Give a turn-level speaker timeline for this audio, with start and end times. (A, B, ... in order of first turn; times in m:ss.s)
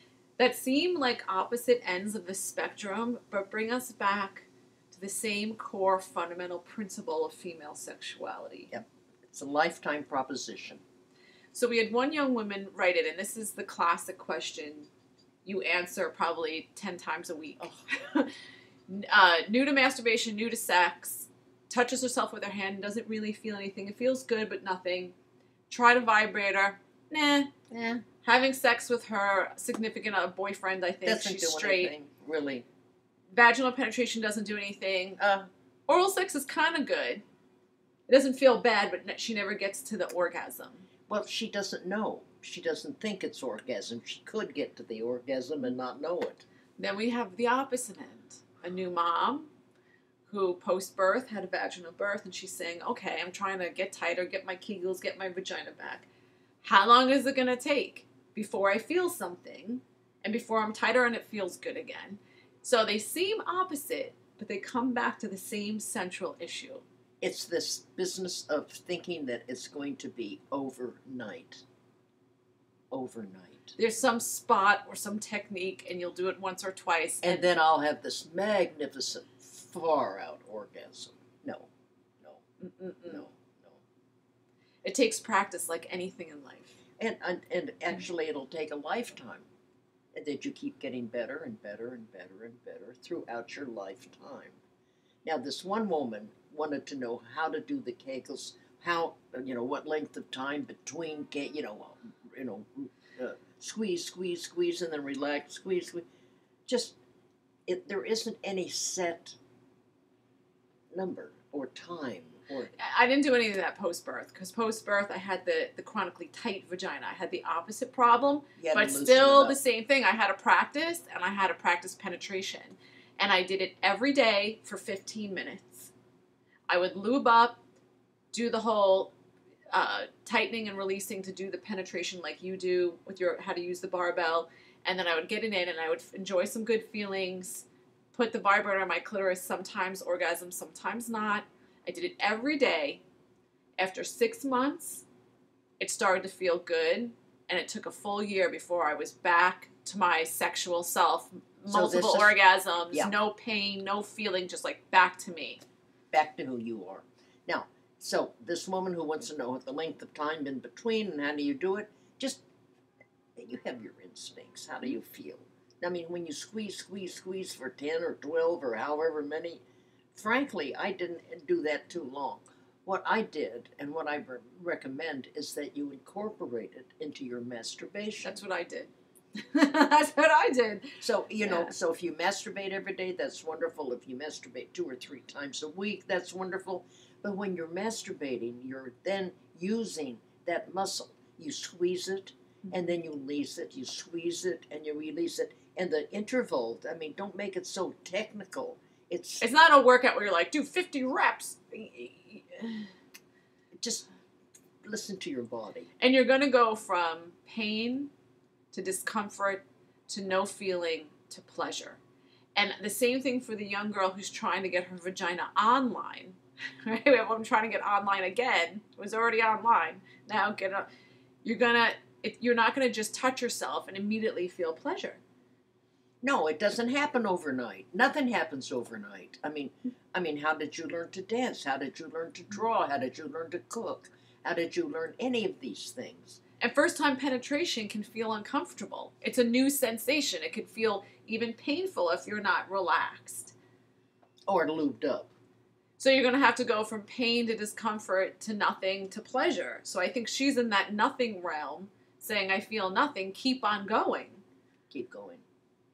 0:00.4-0:08.7 A
0:08.7-0:10.8 B
0:11.5-0:14.9 A
0:15.4-0:18.3 A
0:18.9-0:25.1 A
0:25.7-0:27.5 A
0:27.7-0:28.0 B
0:28.2-0:31.9 A
0:31.0-0:32.6 B
0:33.3-0:35.2 A
0:35.2-0:35.5 B
0:35.9-0:37.2 A
0:38.1-0:40.8 A
0:41.1-0:46.4 B
0:46.8-0:49.5 A
0:50.3-0:56.1 A
0:56.6-1:06.8 A
1:07.2-1:11.6 B
1:12.9-1:13.8 B
1:13.8-1:17.4 A
1:17.2-1:21.7 B
1:22.6-1:23.2 A
1:23.0-1:23.8 B
1:24.8-1:26.7 A
1:27.0-1:29.4 B
1:30.1-1:34.6 B
1:35.2-1:46.0 B
1:46.7-1:47.0 B
1:47.7-1:49.4 B
1:50.9-1:52.7 B
1:52.7-2:05.9 A
1:58.6-1:59.6 B
2:06.7-2:07.6 A
2:08.3-2:09.1 A
2:09.7-2:23.0 A
2:23.8-2:25.0 A
2:25.8-2:35.6 A
2:31.7-2:32.4 B
2:36.1-2:42.4 B
2:43.4-2:49.6 B
2:50.1-2:58.4 B
2:58.2-3:01.7 A
3:01.0-3:19.4 B
3:19.4-3:22.9 A
3:23.8-3:24.0 B
3:24.8-3:25.9 B
3:26.0-3:28.1 A
3:28.7-3:32.0 A
3:32.6-3:40.9 A
3:41.4-3:45.2 A
3:46.2-3:56.4 B
3:56.6-4:03.5 A
4:04.4-4:05.3 B
4:06.0-4:14.4 A
4:14.9-4:15.4 B